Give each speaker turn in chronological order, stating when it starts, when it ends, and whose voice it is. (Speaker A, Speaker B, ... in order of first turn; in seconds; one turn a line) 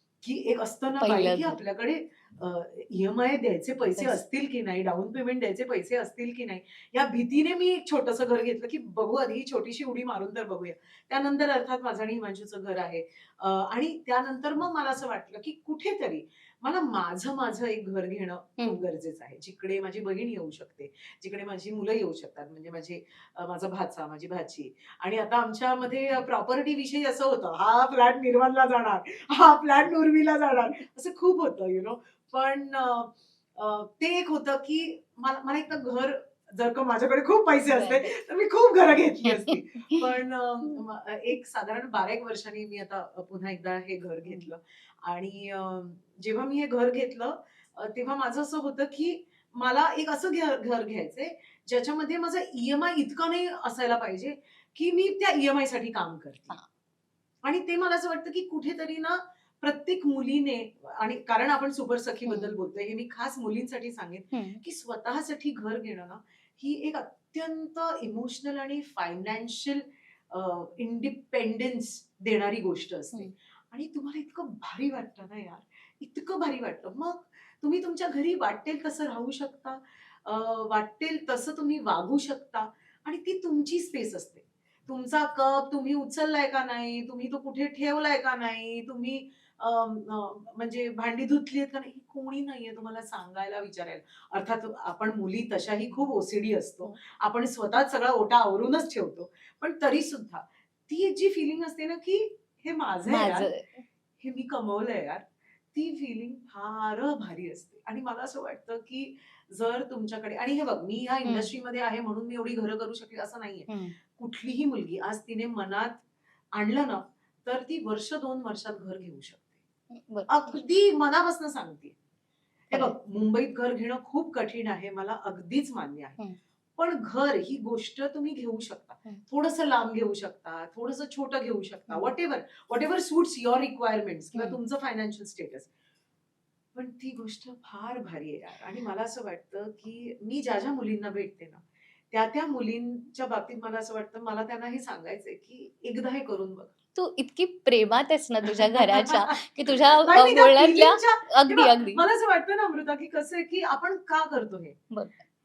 Speaker A: 0.2-56.6
Speaker B: 1.0-1.6
Speaker B: 37.7-38.1
Speaker B: 39.2-40.0
Speaker A: 57.4-103.5
Speaker B: 62.2-62.5
Speaker B: 64.3-64.6
Speaker B: 103.1-103.8
Speaker A: 104.2-116.0
Speaker B: 111.2-111.5
Speaker B: 113.7-114.0
Speaker A: 116.5-119.5
Speaker B: 119.9-120.7
Speaker A: 120.3-122.0
Speaker A: 122.7-126.2
Speaker A: 126.8-135.7
Speaker A: 136.7-146.7
Speaker B: 146.9-152.0
Speaker A: 148.5-154.8
Speaker B: 154.9-155.2